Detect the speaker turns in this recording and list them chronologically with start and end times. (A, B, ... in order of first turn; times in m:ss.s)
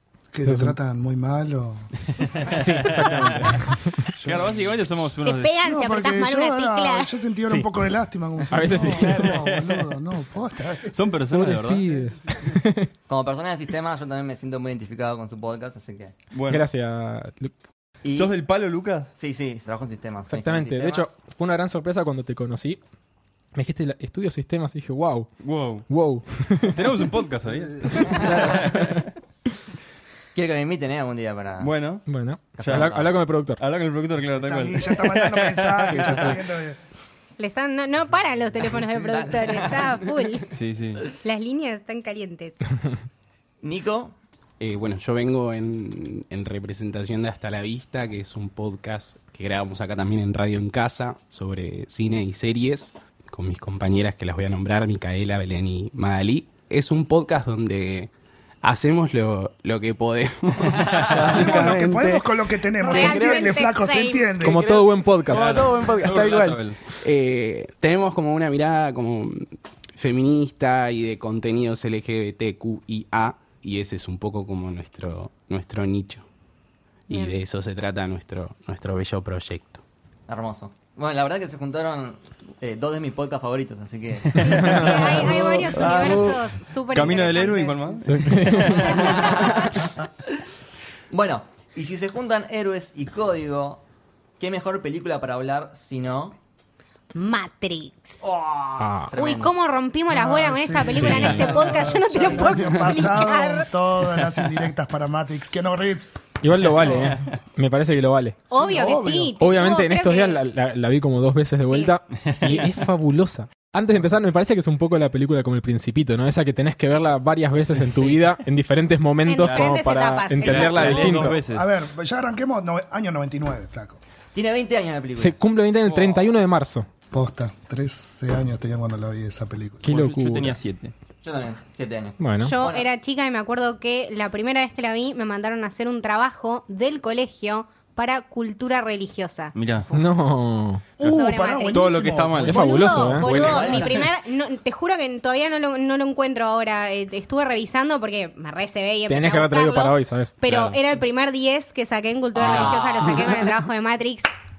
0:00.3-0:01.9 A
0:00.4-0:00.8 B
0:02.2-0:03.4 C
0:02.5-0:04.0 B
0:04.2-0:04.8 A
0:04.2-0:05.5 C
0:05.2-0:07.1 D
0:05.6-0:10.9 A
0:08.5-0:09.4 B
0:08.8-0:09.8 C
0:10.9-0:11.8 C
0:11.3-0:12.9 B
0:13.1-0:16.1 E
0:16.3-0:16.6 C
0:16.5-0:17.5 B
0:18.0-0:18.3 E
0:18.1-0:19.1 C
0:19.2-0:21.1 E
0:20.3-0:22.8 B
0:23.6-0:25.3 B
0:25.4-0:25.9 C
0:25.9-0:26.8 B
0:26.7-0:29.1 C
0:27.9-0:29.0 B
0:30.3-0:31.7 E
0:31.6-0:32.0 C
0:32.0-0:33.6 B
0:32.6-0:33.0 E
0:32.6-0:36.4 C
0:34.4-0:36.8 A
0:37.4-0:40.5 D
0:38.6-0:39.3 A
0:39.0-0:40.1 E
0:40.5-0:41.0 C
0:41.2-0:42.8 D
0:43.6-0:44.2 E
0:44.6-0:58.1 F
0:58.6-1:02.3 F
1:00.8-1:01.4 E
1:01.2-1:04.6 A
1:02.8-1:04.4 D
1:02.8-1:03.6 F
1:04.4-1:06.4 B
1:04.4-1:16.2 F
1:05.3-1:06.8 C
1:17.1-1:19.8 F
1:17.1-1:17.3 D
1:20.3-1:25.4 E
1:24.3-1:24.9 C
1:24.4-1:28.2 D
1:24.4-1:25.9 B
1:25.1-1:26.4 F
1:25.8-1:26.4 C
1:26.9-1:29.7 C
1:28.1-1:29.0 B
1:28.7-1:29.9 E
1:28.7-1:29.6 D
1:31.1-1:33.8 E
1:34.4-1:36.4 E
1:37.1-1:38.3 D
1:38.2-1:39.5 E
1:38.8-1:39.2 B
1:39.1-1:43.7 D
1:40.1-1:46.2 A
1:41.0-1:41.5 B
1:41.0-1:41.7 C
1:42.4-1:43.0 F
1:46.4-1:48.4 B
1:46.8-1:47.2 C
1:48.5-1:49.4 A
1:48.5-1:50.4 D
1:49.4-2:01.4 B
1:51.7-1:51.9 D
1:52.2-1:52.7 C
1:59.2-2:01.3 D
1:59.4-1:59.8 C
2:00.4-2:01.7 C
2:01.5-2:04.0 A
2:04.3-2:05.3 E
2:05.2-2:06.9 B
2:07.1-2:09.8 A
2:09.8-2:10.6 B
2:09.8-2:10.9 C
2:11.2-2:12.9 E
2:12.2-2:12.5 B
2:12.4-2:19.5 D
2:19.5-2:19.9 C
2:19.8-2:20.1 E
2:19.9-2:20.8 B
2:21.0-2:22.8 A
2:21.0-2:24.0 C
2:21.0-2:34.3 D
2:22.4-2:23.3 B
2:23.2-2:24.0 E
2:29.1-2:30.4 B
2:30.4-2:30.8 C
2:32.3-2:33.5 E
2:32.4-2:32.7 C